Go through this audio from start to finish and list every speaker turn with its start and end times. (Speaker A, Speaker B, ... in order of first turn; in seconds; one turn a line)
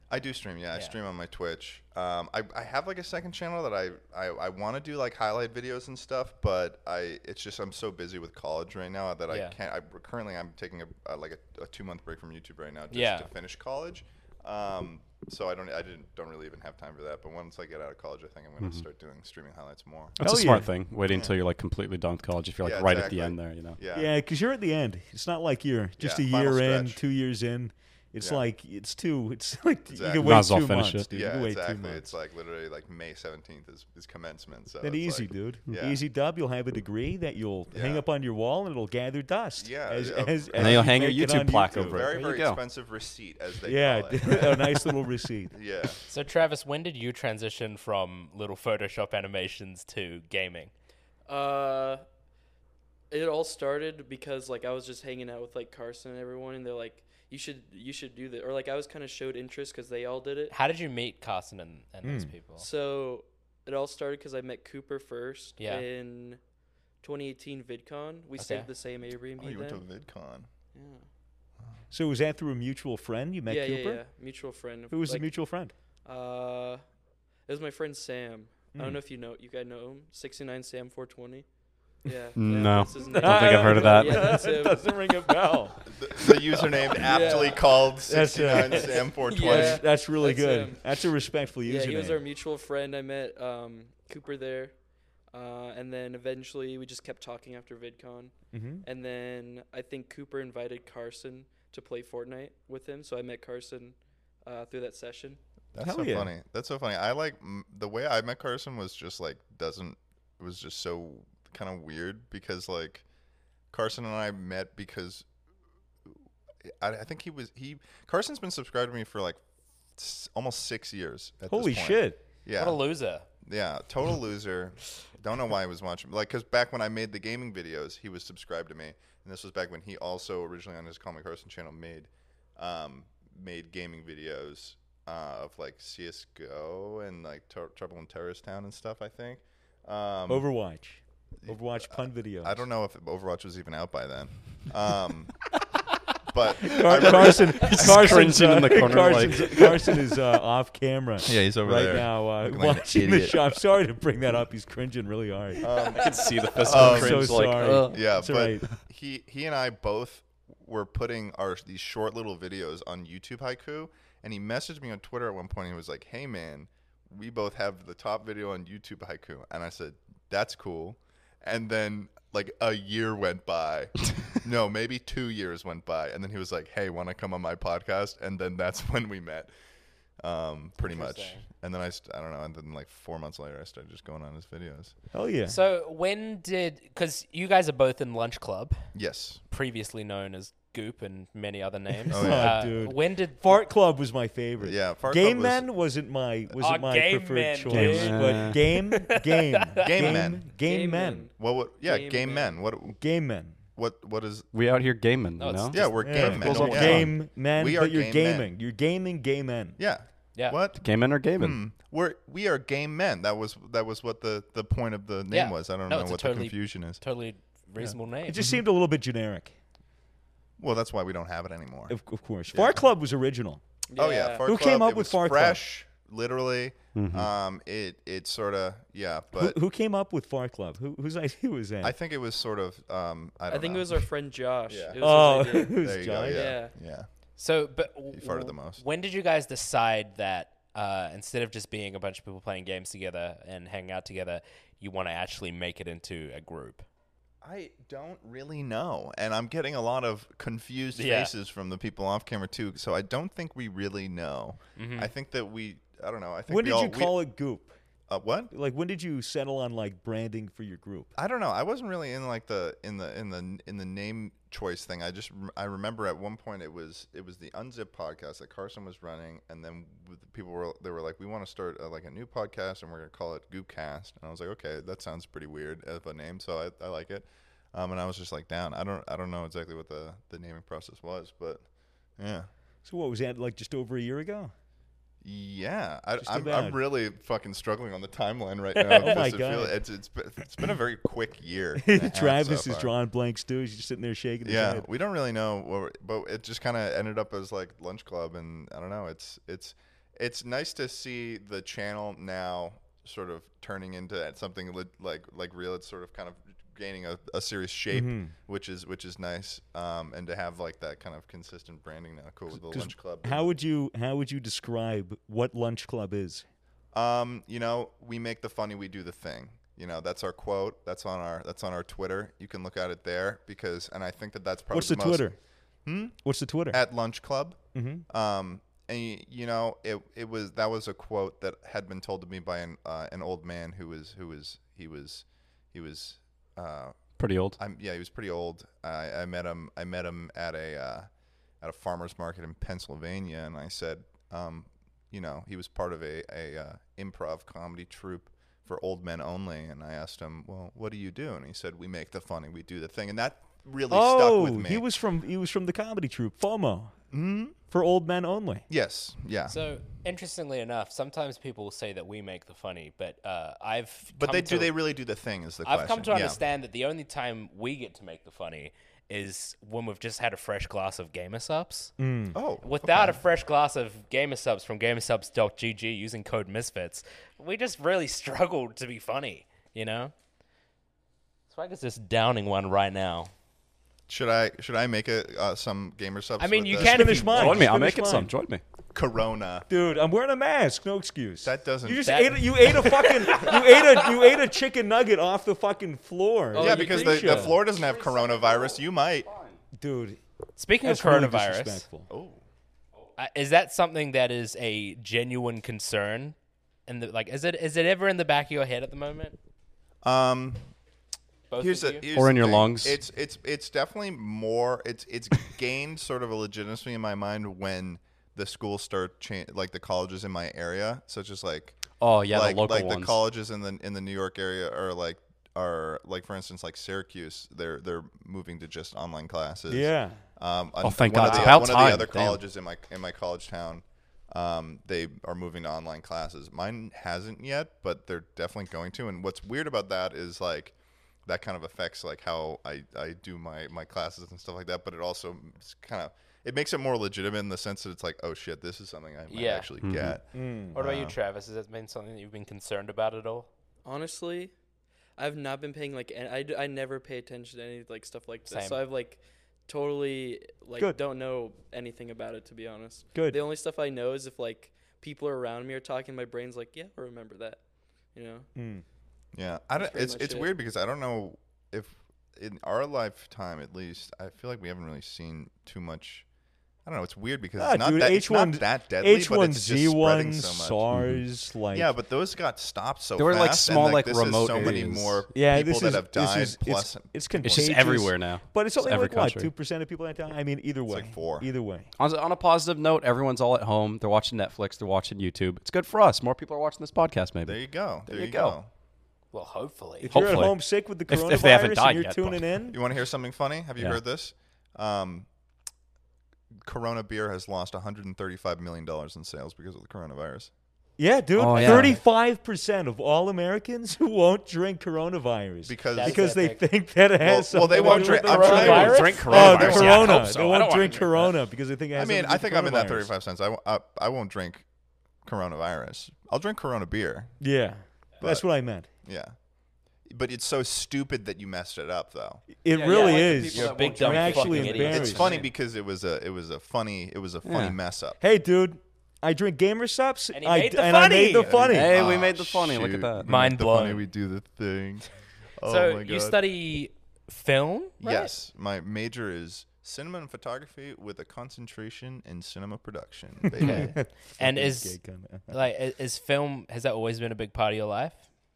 Speaker A: 0.1-20.2
Speaker B: 9.3-9.6
Speaker B: 12.9-13.3
Speaker C: 20.2-23.8
Speaker D: 20.2-20.7
Speaker A: 21.1-21.3
Speaker A: 22.6-24.1
Speaker D: 23.9-32.1
Speaker A: 26.0-27.0
Speaker A: 29.9-36.0
Speaker C: 30.2-31.1
Speaker D: 34.8-42.1
Speaker A: 37.7-38.0
Speaker A: 39.6-41.0
Speaker C: 40.6-42.6
Speaker A: 41.7-45.0
Speaker D: 43.6-45.5
Speaker A: 45.5-46.0
Speaker B: 46.1-50.7
Speaker E: 51.3-52.0
Speaker E: 53.1-60.5
Speaker B: 60.5-62.7
Speaker D: 62.0-62.3
Speaker E: 62.6-66.4
Speaker B: 65.6-65.8
Speaker E: 67.0-69.8
Speaker B: 68.4-68.7
Speaker A: 69.4-70.5
Speaker E: 70.7-71.0
Speaker D: 71.9-74.0
Speaker E: 73.5-75.4
Speaker D: 74.9-75.7
Speaker E: 76.0-76.8
Speaker E: 77.5-81.5
Speaker D: 78.8-79.0
Speaker E: 82.0-85.0
Speaker C: 82.4-84.4
Speaker D: 83.0-86.1
Speaker A: 85.9-89.8
Speaker E: 87.0-87.7
Speaker D: 87.1-87.5
Speaker D: 88.0-92.2
Speaker E: 88.4-90.9
Speaker E: 91.6-94.7
Speaker E: 95.3-105.4
Speaker D: 98.5-98.8
Speaker A: 105.7-113.0
Speaker D: 105.8-106.3
Speaker A: 113.7-115.3
Speaker A: 116.8-119.4
Speaker A: 120.0-122.8
Speaker D: 121.5-122.2
Speaker B: 122.6-123.3
Speaker A: 123.4-140.5
Speaker D: 140.3-142.6
Speaker A: 141.4-145.5
Speaker A: 146.3-148.1
Speaker D: 146.6-155.9
Speaker C: 146.9-150.0
Speaker A: 148.8-149.5
Speaker A: 151.2-153.4
Speaker C: 152.9-153.3
Speaker A: 155.6-179.5
Speaker C: 155.8-158.8
Speaker D: 156.6-158.7
Speaker A: 180.2-184.9
Speaker B: 180.8-181.4
Speaker D: 185.1-185.6
Speaker B: 185.5-188.9
Speaker A: 188.9-189.4
Speaker B: 189.5-193.6
Speaker A: 192.1-192.8
Speaker D: 192.1-201.3
Speaker A: 194.6-195.7
Speaker B: 196.6-199.9
Speaker C: 197.7-198.6
Speaker A: 199.8-200.5
Speaker E: 200.6-202.6
Speaker A: 201.4-203.0
Speaker D: 202.9-203.6
Speaker A: 203.8-204.5
Speaker C: 204.5-207.2
Speaker B: 205.4-207.0
Speaker A: 205.7-208.5
Speaker D: 206.0-209.8
Speaker A: 209.8-217.0
Speaker C: 210.8-211.6
Speaker B: 215.3-218.4
Speaker A: 217.8-218.6
Speaker D: 218.3-219.6
Speaker A: 220.6-222.0
Speaker D: 221.9-223.6
Speaker A: 222.5-222.8
Speaker E: 223.9-224.5
Speaker A: 224.0-229.6
Speaker D: 224.4-225.6
Speaker C: 226.9-227.3
Speaker D: 229.3-232.0
Speaker A: 231.8-234.1
Speaker E: 233.5-236.7
Speaker A: 234.7-237.1
Speaker D: 235.0-236.6
Speaker B: 237.4-246.8
Speaker A: 238.1-238.8
Speaker A: 247.4-257.2
Speaker B: 250.9-251.3
Speaker B: 254.8-255.1
Speaker D: 256.5-257.7
Speaker A: 258.1-258.5
Speaker D: 258.5-261.1
Speaker A: 261.1-282.5
Speaker D: 282.8-284.5
Speaker A: 285.2-292.9
Speaker D: 286.2-286.8
Speaker B: 288.8-289.1
Speaker D: 288.9-289.8
Speaker D: 291.8-294.9
Speaker A: 294.4-313.5
Speaker D: 307.9-308.3
Speaker D: 312.5-316.4
Speaker A: 316.9-325.3
Speaker D: 324.7-325.4
Speaker A: 325.9-326.2
Speaker D: 326.2-326.8
Speaker A: 326.7-341.1
Speaker D: 327.7-328.1
Speaker C: 337.2-337.6
Speaker A: 341.6-354.8
Speaker D: 353.9-357.0
Speaker A: 357.1-357.6
Speaker D: 357.7-358.7
Speaker A: 358.7-359.6
Speaker B: 359.5-364.7
Speaker A: 364.2-366.4
Speaker B: 365.6-371.9
Speaker D: 372.0-372.4
Speaker A: 372.3-373.2
Speaker B: 372.6-380.1
Speaker B: 381.5-383.3
Speaker A: 384.1-387.4
Speaker B: 386.4-387.7
Speaker D: 386.8-388.3
Speaker C: 387.3-388.6
Speaker A: 388.9-389.7
Speaker D: 389.7-397.6
Speaker A: 391.4-392.4
Speaker B: 392.0-394.1
Speaker E: 396.5-397.6
Speaker A: 396.6-399.3
Speaker C: 397.8-398.6
Speaker C: 399.3-399.6
Speaker D: 399.8-400.2
Speaker B: 400.6-401.9
Speaker D: 400.8-402.1
Speaker A: 402.1-402.4
Speaker B: 403.2-406.4
Speaker B: 406.9-409.4
Speaker A: 410.0-410.7
Speaker B: 411.5-412.1
Speaker A: 411.6-451.2
Speaker C: 412.1-413.0
Speaker C: 422.0-423.2
Speaker D: 429.7-430.2
Speaker C: 430.8-432.4
Speaker B: 449.3-449.7
Speaker C: 449.8-450.2
Speaker D: 450.3-450.8
Speaker B: 450.8-453.5
Speaker E: 453.8-454.5
Speaker E: 455.2-467.6
Speaker B: 458.5-458.8
Speaker D: 463.1-463.4
Speaker E: 468.1-468.5
Speaker D: 468.6-468.8
Speaker A: 469.3-476.3
Speaker E: 469.8-470.5
Speaker A: 476.9-480.9
Speaker D: 477.6-481.9
Speaker C: 480.9-481.2
Speaker A: 481.7-487.8
Speaker C: 483.2-485.3
Speaker D: 485.3-491.9
Speaker C: 487.4-489.5
Speaker A: 490.9-491.5
Speaker C: 492.0-498.6
Speaker A: 497.5-498.7
Speaker B: 499.3-500.3
Speaker D: 500.0-502.8
Speaker C: 500.1-502.4
Speaker A: 502.7-505.3
Speaker A: 506.6-510.5
Speaker D: 511.0-523.1
Speaker C: 511.4-512.0
Speaker A: 511.6-511.9
Speaker A: 515.7-516.4
Speaker B: 515.9-516.7
Speaker A: 517.2-520.1
Speaker B: 517.7-521.3
Speaker C: 518.2-521.1
Speaker A: 521.9-524.7
Speaker A: 525.2-527.4
Speaker D: 527.4-528.9
Speaker A: 528.2-528.5
Speaker A: 529.0-529.4
Speaker A: 530.1-532.5
Speaker D: 532.6-535.3
Speaker B: 532.7-535.5
Speaker C: 532.9-535.5
Speaker A: 534.9-538.2
Speaker C: 537.4-537.8
Speaker D: 538.2-542.0
Speaker B: 540.3-541.6
Speaker A: 541.4-545.1
Speaker C: 541.7-543.3
Speaker B: 543.2-544.1
Speaker A: 545.6-546.4
Speaker B: 545.6-548.3
Speaker A: 548.0-554.0
Speaker D: 553.5-555.5
Speaker B: 553.6-558.3